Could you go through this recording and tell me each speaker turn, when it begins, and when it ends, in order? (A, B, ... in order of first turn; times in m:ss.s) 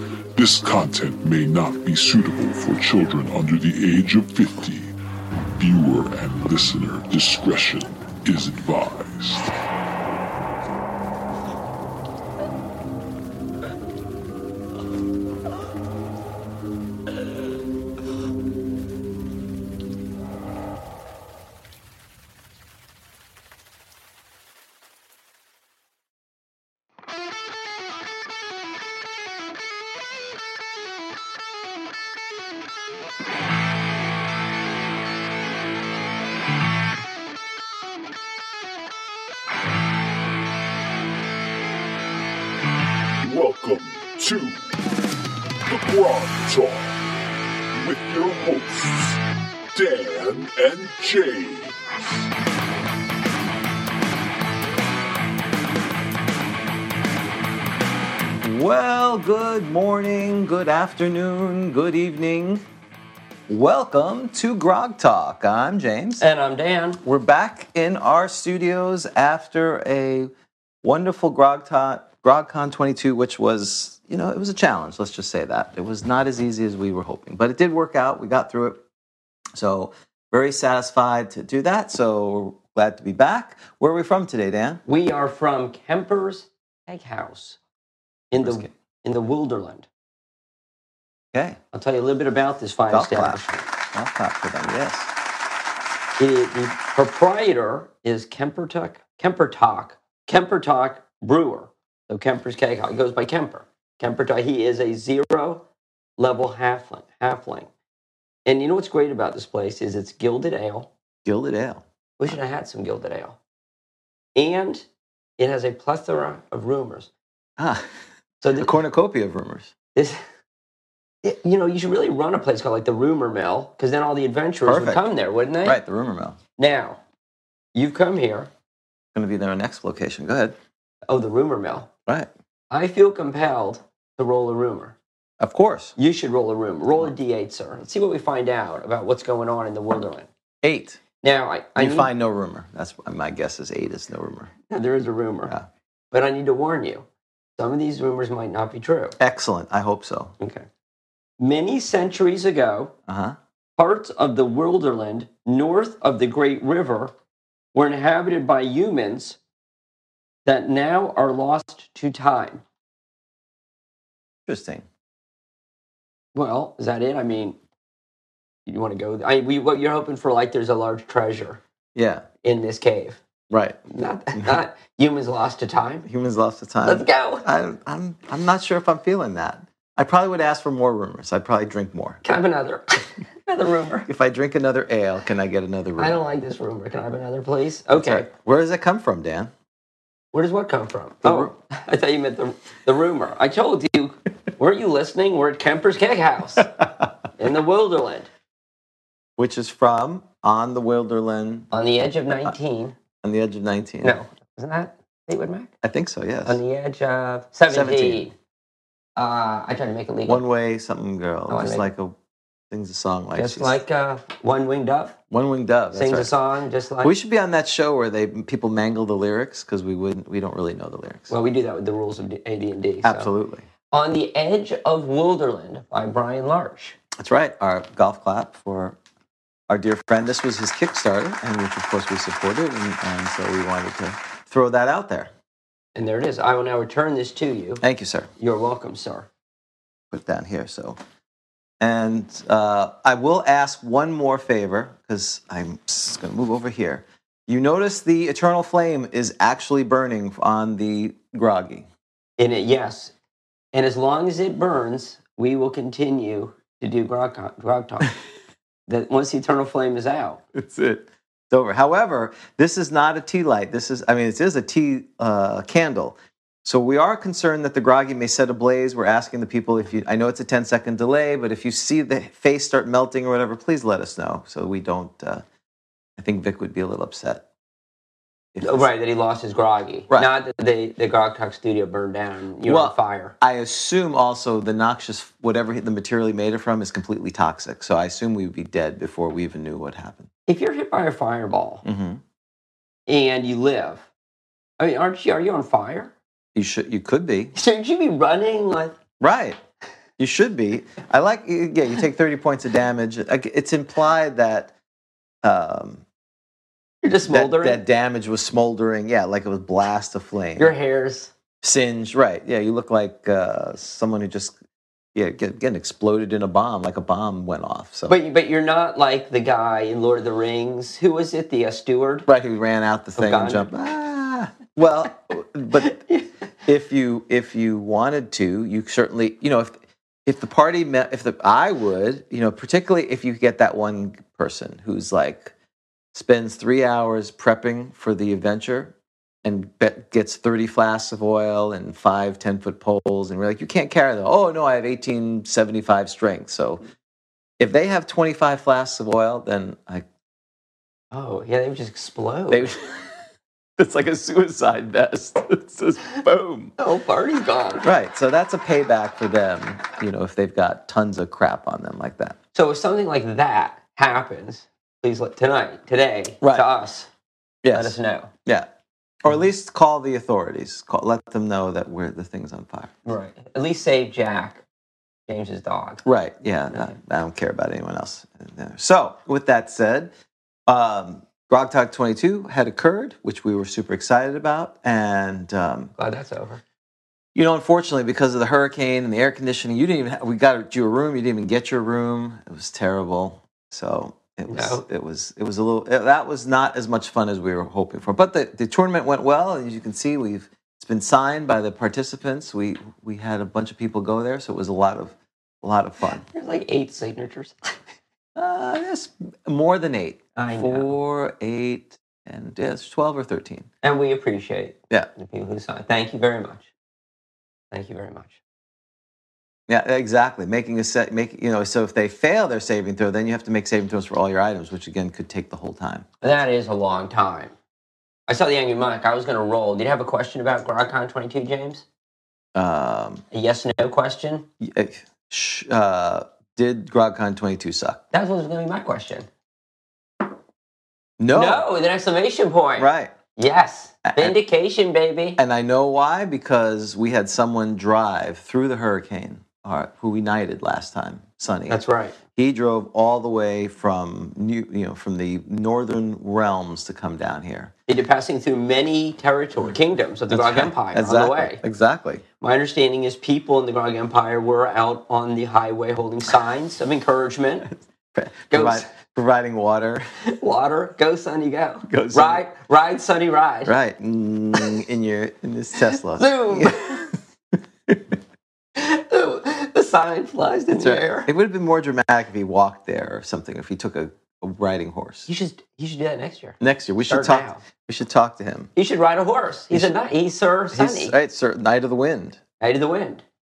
0:00.4-0:04.9 A
0:05.6-0:09.5 A
0:43.2-0:44.6 A
0:45.6-0:46.9 A
0:47.7-0:49.2 A
0:49.7-0:51.9 A
0:58.4-1:02.6 B
1:03.5-1:06.2 B
1:06.2-1:07.0 C
1:07.0-1:10.3 B
1:10.8-1:18.8 B
1:19.5-1:24.8 B
1:24.8-1:27.6 C
1:28.3-1:29.9 C
1:28.4-1:28.7 B
1:31.3-1:31.6 B
1:31.7-1:33.7 C
1:32.9-1:35.1 B
1:36.2-1:45.6 C
1:46.2-1:47.7 C
1:48.4-1:50.9 C
1:51.2-1:51.8 B
1:52.2-1:53.4 C
1:54.3-1:54.8 C
1:55.4-1:57.1 C
1:57.6-1:57.8 B
1:58.4-1:58.7 C
1:58.6-1:59.7 B
1:59.9-2:00.2 C
2:01.2-2:05.8 C
2:04.6-2:05.1 B
2:05.6-2:06.4 B
2:06.6-2:07.0 C
2:07.7-2:08.5 C
2:09.1-2:10.5 B
2:11.1-2:11.9 C
2:12.7-2:15.0 C
2:15.4-2:15.9 B
2:16.0-2:20.3 C
2:20.6-2:21.0 B
2:21.2-2:22.1 C
2:21.8-2:24.5 B
2:24.7-2:25.5 C
2:26.1-2:27.0 C
2:27.6-2:29.2 C
2:29.2-2:30.3 B
2:30.4-2:30.6 C
2:31.4-2:32.9 C
2:33.1-2:33.4 B
2:33.8-2:37.1 C
2:37.7-2:39.4 C
2:40.4-2:42.6 C
2:44.5-2:44.8 B
2:46.3-2:47.6 C
2:48.6-2:51.6 C
2:51.9-2:52.2 B
2:52.4-2:53.2 C
2:53.5-2:53.8 B
2:53.9-2:56.0 C
2:56.0-3:02.2 B
2:56.8-2:57.5 C
3:02.2-3:04.1 C
3:04.0-3:06.2 B
3:06.0-3:08.3 C
3:07.9-3:09.5 B
3:10.3-3:16.7 C
3:11.2-3:11.5 B
3:17.4-3:18.3 C
3:19.4-3:21.7 B
3:21.7-3:23.0 C
3:23.2-3:24.2 B
3:24.0-3:25.7 C
3:25.8-3:26.6 B
3:26.4-3:28.3 C
3:27.7-3:28.2 B
3:29.2-3:30.4 C
3:30.3-3:32.2 B
3:31.5-3:31.9 C
3:32.7-3:33.8 B
3:33.3-3:35.1 C
3:35.3-3:36.3 B
3:35.9-3:37.1 C
3:37.0-3:41.3 B
3:41.3-3:43.3 C
3:43.0-3:43.6 B
3:43.9-3:47.0 C
3:47.2-3:49.0 B
3:49.7-3:55.3 B
3:55.9-3:57.8 C
3:57.8-3:58.3 B
3:58.4-3:59.3 C
4:00.1-4:01.0 B
4:01.8-4:11.9 B
4:12.4-4:13.1 C
4:13.7-4:18.1 C
4:18.9-4:20.4 C
4:20.5-4:35.4 B
4:36.2-4:37.4 B
4:38.5-4:38.9 B
4:38.6-4:43.3 C
4:42.6-4:50.3 B
4:50.5-4:51.8 C
4:51.8-4:52.2 B
4:53.1-4:54.0 C
4:54.8-4:56.1 C
4:56.5-4:57.5 B
4:57.5-4:59.0 C
4:59.2-4:59.6 B
5:00.2-5:04.7 B
5:05.4-5:06.0 B
5:07.0-5:07.8 C
5:07.3-5:10.7 B
5:10.6-5:11.3 C
5:11.6-5:14.6 B
5:15.1-5:18.2 B
5:18.1-5:22.3 C
5:22.3-5:26.0 B
5:23.2-5:23.7 C
5:25.8-5:26.3 C
5:26.6-5:35.5 B
5:36.1-5:46.8 B
5:47.6-5:50.0 B
5:51.1-5:52.7 C
5:52.5-5:53.1 B
5:53.8-5:56.7 B
5:56.8-5:57.9 C
5:57.8-6:02.4 B
6:02.5-6:07.1 C
6:06.4-6:06.7 B
6:07.6-6:07.9 B
6:07.7-6:08.3 C
6:09.2-6:13.0 B
6:13.0-6:14.6 C
6:15.3-6:16.0 C
6:16.0-6:20.1 B
6:20.7-6:25.9 B
6:26.0-6:26.6 C
6:27.3-6:46.2 B
6:34.5-6:34.8 C
6:46.2-6:47.8 C
6:48.3-6:53.7 B
6:50.4-6:50.9 C
6:53.8-6:56.7 C
6:57.7-6:58.4 C
6:59.7-7:06.1 B
7:06.2-7:07.5 C
7:08.3-7:11.8 C
7:12.5-7:13.2 B
7:13.3-7:14.5 C
7:14.6-7:18.0 B
7:18.1-7:19.3 C
7:21.2-7:21.6 B
7:21.3-7:25.4 C
7:22.8-7:23.1 B
7:24.0-7:24.3 B
7:25.4-7:31.8 B
7:31.7-7:32.2 C
7:32.4-7:37.7 B
7:37.9-7:41.6 C
7:40.3-7:42.2 B
7:42.4-7:47.7 C
7:47.7-7:50.0 B
7:48.5-7:48.9 C
7:50.2-7:53.7 C
7:51.8-7:52.4 B
7:53.6-7:57.1 B
7:56.0-7:57.0 C
7:57.9-7:58.2 B
7:58.8-8:01.3 C
8:00.7-8:05.3 B
8:05.3-8:07.6 C
8:06.6-8:08.7 B
8:08.7-8:11.1 C
8:10.7-8:12.4 B
8:12.6-8:13.2 C